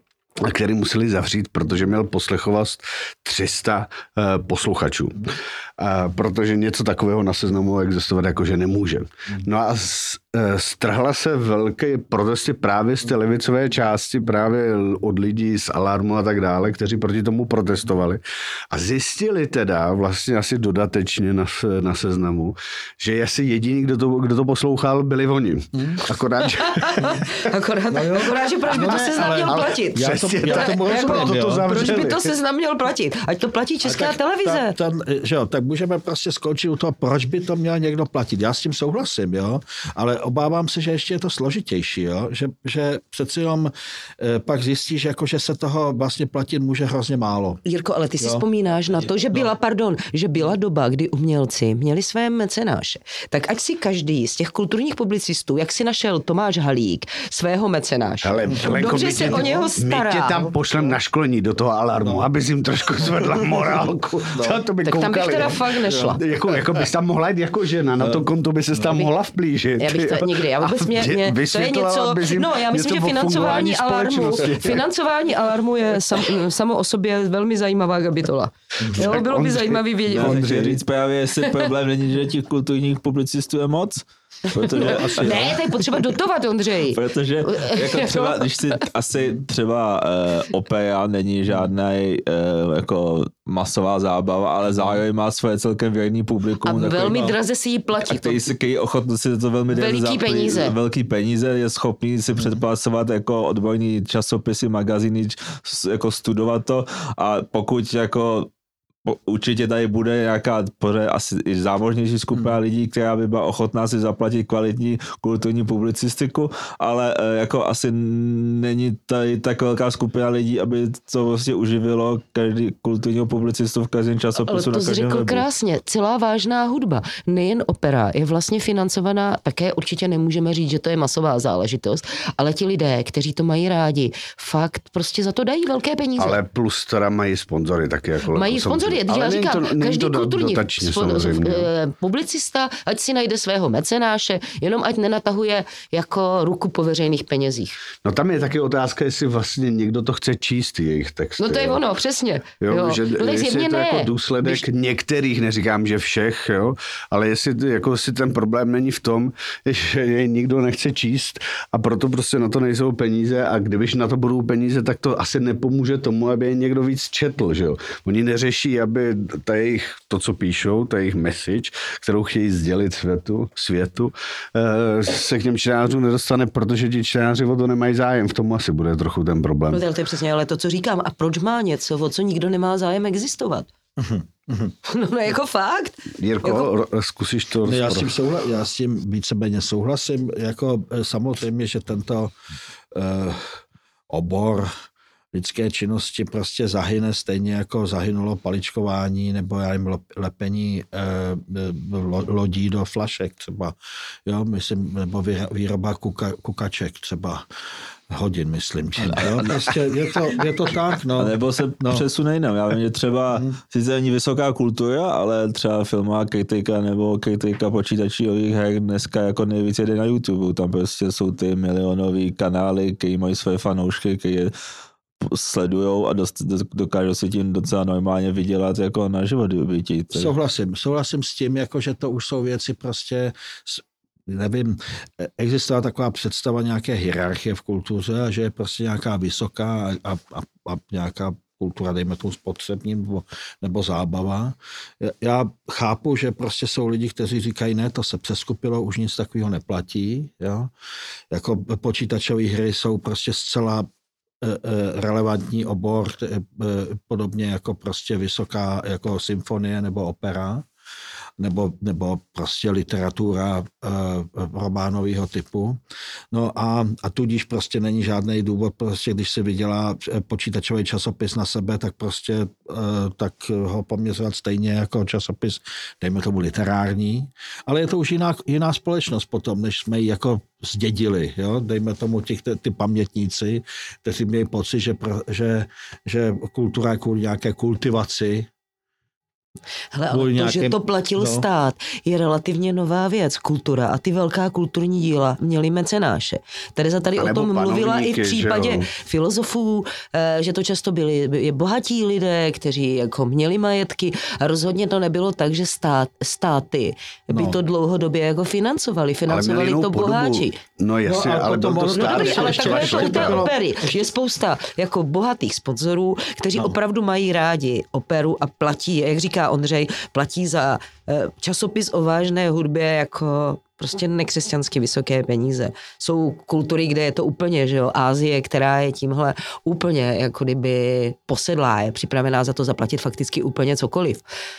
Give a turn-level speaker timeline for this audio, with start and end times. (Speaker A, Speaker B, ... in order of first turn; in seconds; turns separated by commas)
Speaker A: 0.4-27.4, Speaker B: 25.7-26.0, Speaker C: 26.6-34.8, Speaker B: 27.9-31.9, Speaker A: 28.8-32.3, Speaker B: 33.8-47.6, Speaker C: 47.6-60.5, Speaker B: 48.2-48.4, Speaker B: 49.0-49.5, Speaker A: 58.2-74.8, Speaker B: 58.5-59.7, Speaker B: 62.0-62.3, Speaker B: 63.0-64.6, Speaker C: 64.8-66.2, Speaker B: 65.9-66.2, Speaker B: 68.0-68.2, Speaker B: 68.8-69.0, Speaker C: 69.8-80.4, Speaker B: 78.8-79.1, Speaker A: 78.9-80.8, Speaker D: 80.1-85.6, Speaker B: 84.7-85.6, Speaker C: 84.7-88.5, Speaker D: 86.9-97.3, Speaker B: 94.7-95.0, Speaker C: 96.6-98.5, Speaker D: 98.0-108.5, Speaker C: 99.7-100.8, Speaker D: 109.0-125.5, Speaker C: 124.3-136.4, Speaker A: 136.2-141.7, Speaker C: 138.3-147.8, Speaker A: 148.0-151.8, Speaker C: 151.4-154.6, Speaker A: 152.6-179.8, Speaker C: 179.7-183.7, Speaker B: 184.0-184.7, Speaker C: 184.8-186.7, Speaker A: 186.2-188.1, Speaker B: 187.7-192.3, Speaker B: 192.9-194.7, Speaker B: 195.3-207.4, Speaker B: 208.1-212.1, Speaker D: 209.0-209.6, Speaker D: 211.2-224.5, Speaker B: 213.3-213.6, Speaker D: 225.2-230.3, Speaker B: 230.1-250.7, Speaker B: 251.3-253.9, Speaker B: 254.4-260.7, Speaker B: 261.4-265.8, Speaker B: 266.3-288.5, Speaker C: 289.9-310.6, Speaker B: 290.1-291.5, Speaker A: 297.2-298.9, Speaker B: 307.3-307.6, Speaker A: 309.3-313.5, Speaker B: 311.0-313.9, Speaker C: 311.9-334.2